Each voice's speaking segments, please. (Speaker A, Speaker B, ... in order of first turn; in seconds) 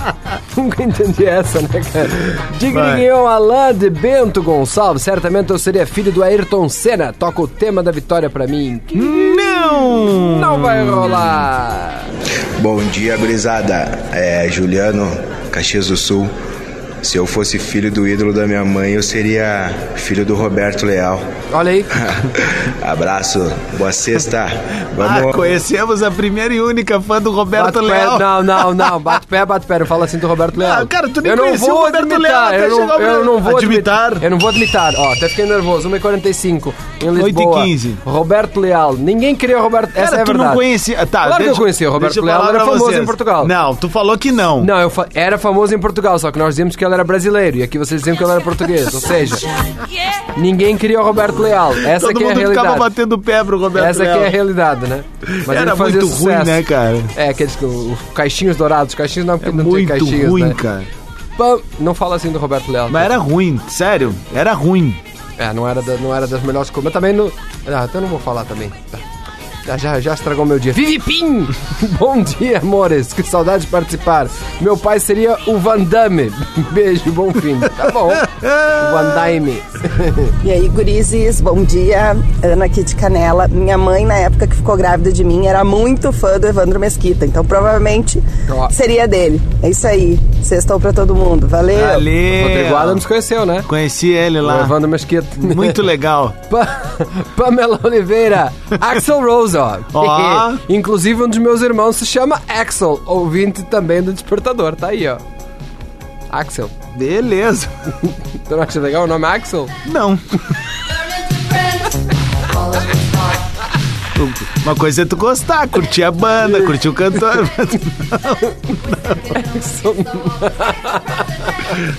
Speaker A: 0.6-12.1, 21.5-21.9, 27.5-40.6, 41.2-43.5, 44.6-49.5, 50.4-52.9, 53.8-60.6, 61.4-63.1, 65.4-69.0, 69.7-80.3, 88.5-88.7, 92.3-93.7, 94.4-95.8, 96.5-105.2, 106.3-106.7, 108.1-109.7, 116.4-116.7, 119.2-121.8
Speaker B: 2.7-3.0, 8.9-11.1, 24.9-29.1, 30.5-34.2, 37.1-38.0, 40.0-44.7, 51.9-54.4, 55.3-57.1, 59.4-60.9, 62.9-65.0, 77.8-79.2, 91.7-93.0, 93.7-94.8, 95.4-96.4, 99.9-100.6, 106.9-107.7, 109.8-110.2, 114.2-119.1
Speaker C: 12.6-16.3, 17.0-21.3, 22.8-25.4
Speaker D: 80.4-92.1